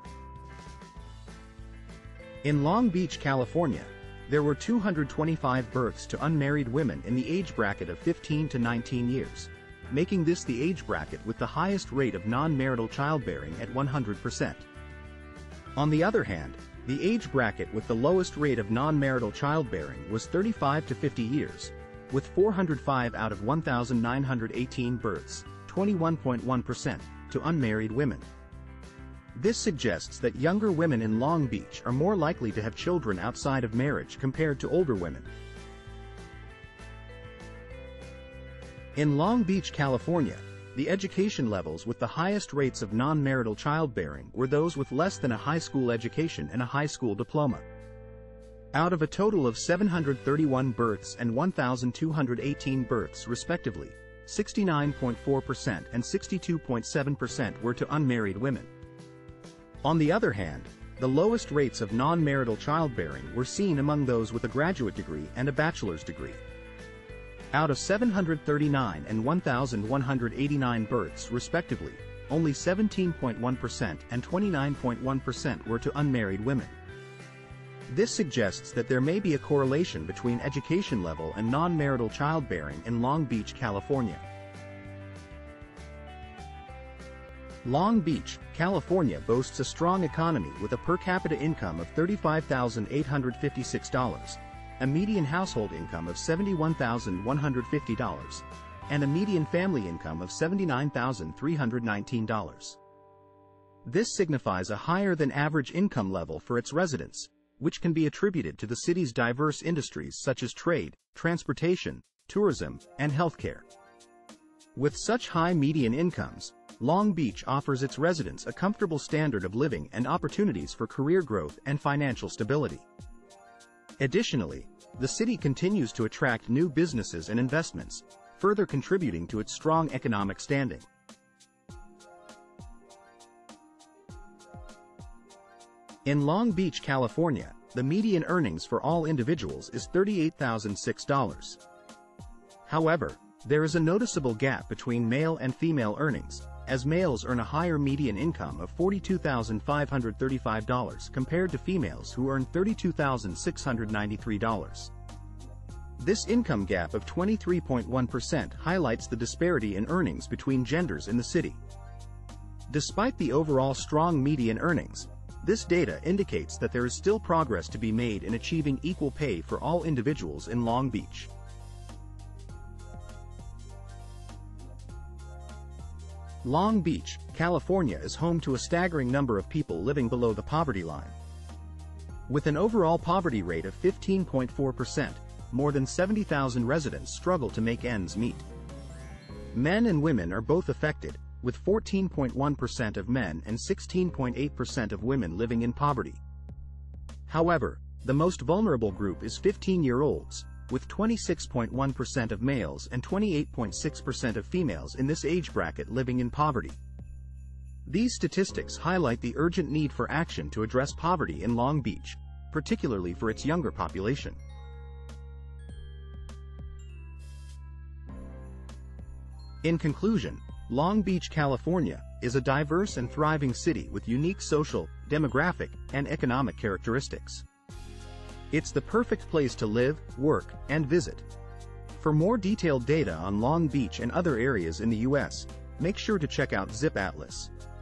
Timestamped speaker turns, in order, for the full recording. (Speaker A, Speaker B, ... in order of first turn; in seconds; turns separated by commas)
Speaker A: 2.4-14.7, Speaker A: 15.8-28.3, Speaker A: 29.3-35.3, Speaker A: 38.9-47.6, Speaker A: 48.7-58.7, Speaker A: 59.8-66.4, Speaker A: 67.5-76.8, Speaker A: 77.9-84.2, Speaker A: 87.6-102.8, Speaker A: 103.8-113.6, Speaker A: 114.7-122.8, Speaker A: 124.0-130.9, Speaker A: 136.0-141.6, Speaker A: 142.7-154.9, Speaker A: 156.0-161.6, Speaker A: 162.7-171.3, Speaker A: 176.4-181.2, Speaker A: 182.3-188.4, Speaker A: 189.5-196.2, Speaker A: 197.3-206.8, Speaker A: 207.8-214.4, Speaker A: 219.6-227.4, Speaker A: 228.5-231.3, Speaker A: 232.0-237.5